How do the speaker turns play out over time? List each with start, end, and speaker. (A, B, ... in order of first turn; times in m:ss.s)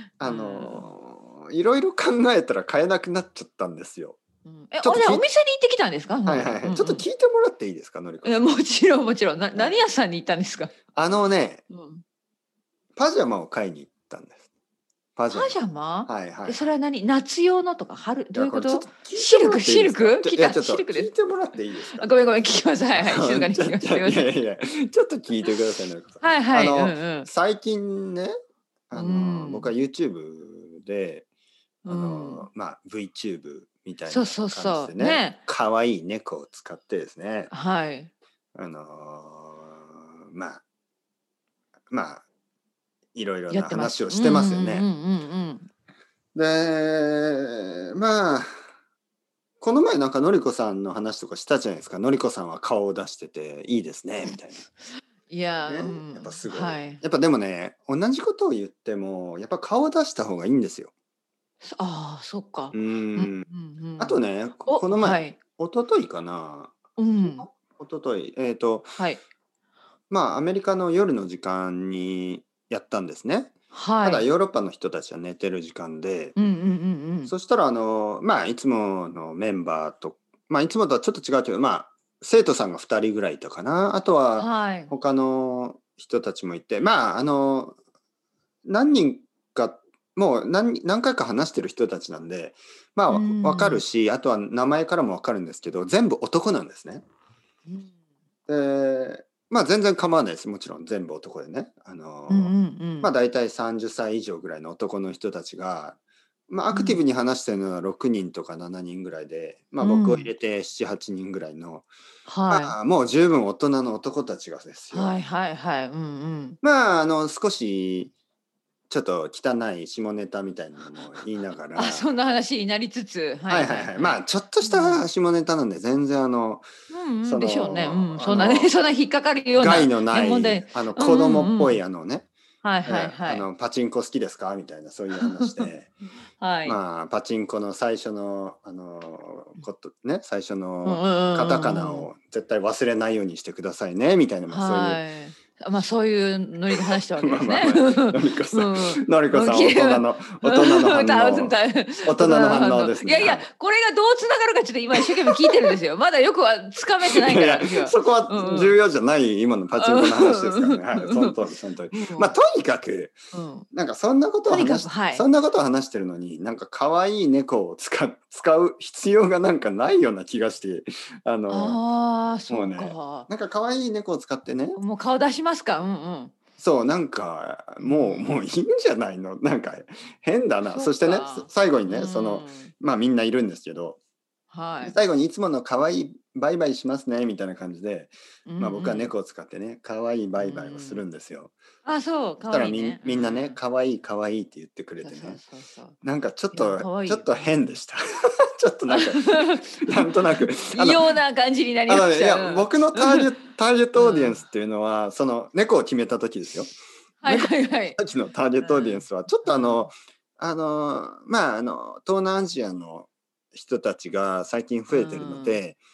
0:00.2-0:04.2 A
0:00.2-0:00.9 B
0:04.4-0:07.0 B
0:04.8-0:05.2 A
0:06.2-0:08.5 A
0:08.2-0:10.7 B
0:09.5-0:09.8 A
0:10.9-0:11.6 A
0:11.7-0:12.0 B
0:13.0-0:14.4 A
0:15.2-0:16.7 A
0:15.3-0:21.1 B
0:18.3-0:22.1 A
0:21.9-0:24.3 B
0:22.9-0:28.3 A
0:26.2-0:27.3 B
0:28.9-0:31.2 A
0:28.9-0:29.7 B
0:31.8-0:32.5 B
0:31.8-0:37.5 A
0:34.1-0:35.4 B
0:37.5-0:38.1 B
0:38.5-0:40.6 A
0:41.9-0:42.2 A
0:43.1-0:44.9 A
0:43.5-0:45.7 B
0:46.3-0:48.5 A
0:49.6-0:54.7 A
0:55.3-0:57.0 B
0:55.6-1:00.9 A
1:01.6-1:05.4 B
1:02.7-1:03.5 A
1:04.0-1:08.9 A
1:07.0-1:07.4 B
1:10.1-1:16.4 A
1:13.7-1:14.2 B
1:16.4-1:17.3 B
1:17.3-1:27.8 A
1:24.4-1:24.9 B
1:28.6-1:37.0 A
1:33.1-1:33.8 B
1:37.7-1:37.9 B
1:38.5-1:46.0 A
1:42.3-1:43.1 B
1:46.5-1:51.9 A
1:46.7-1:47.0 B
1:49.8-1:50.3 B
1:52.3-1:52.8 B
1:52.5-1:55.2 A
1:54.9-1:56.6 B
1:56.6-1:58.1 A
1:58.9-2:02.1 A
2:01.7-2:05.0 B
2:03.5-2:06.6 A
2:06.9-2:11.8 B
2:07.2-2:08.8 A
2:09.5-2:12.3 A
2:12.6-2:13.5 B
2:12.8-2:15.9 A
2:15.1-2:15.7 B
2:16.4-2:16.8 B
2:16.6-2:25.0 A
2:20.8-2:22.1 B
2:24.5-2:38.7 B
2:26.8-2:33.4 A
2:35.0-2:35.7 A
2:37.1-2:43.2 A
2:39.7-2:42.3 B
2:43.3-2:43.7 B
2:43.7-2:51.8 A
2:44.5-2:45.2 B
2:51.5-2:53.3 B
2:52.5-2:54.8 A
2:54.7-2:56.3 B
2:56.6-3:04.0 A
2:57.8-2:58.4 B
3:00.6-3:02.7 B
3:04.5-3:05.0 B
3:04.8-3:11.5 A
3:08.5-3:09.1 B
3:10.4-3:11.0 B
3:11.8-3:13.6 B
3:12.5-3:15.4 A
3:15.0-3:16.0 B
3:16.0-3:21.1 A
3:16.5-3:17.7 B
3:18.9-3:23.3 B
3:21.9-3:26.7 A
3:23.9-3:24.4 B
3:27.2-3:28.0 B
3:27.2-3:35.8 A
3:28.6-3:29.9 B
3:34.9-3:35.6 B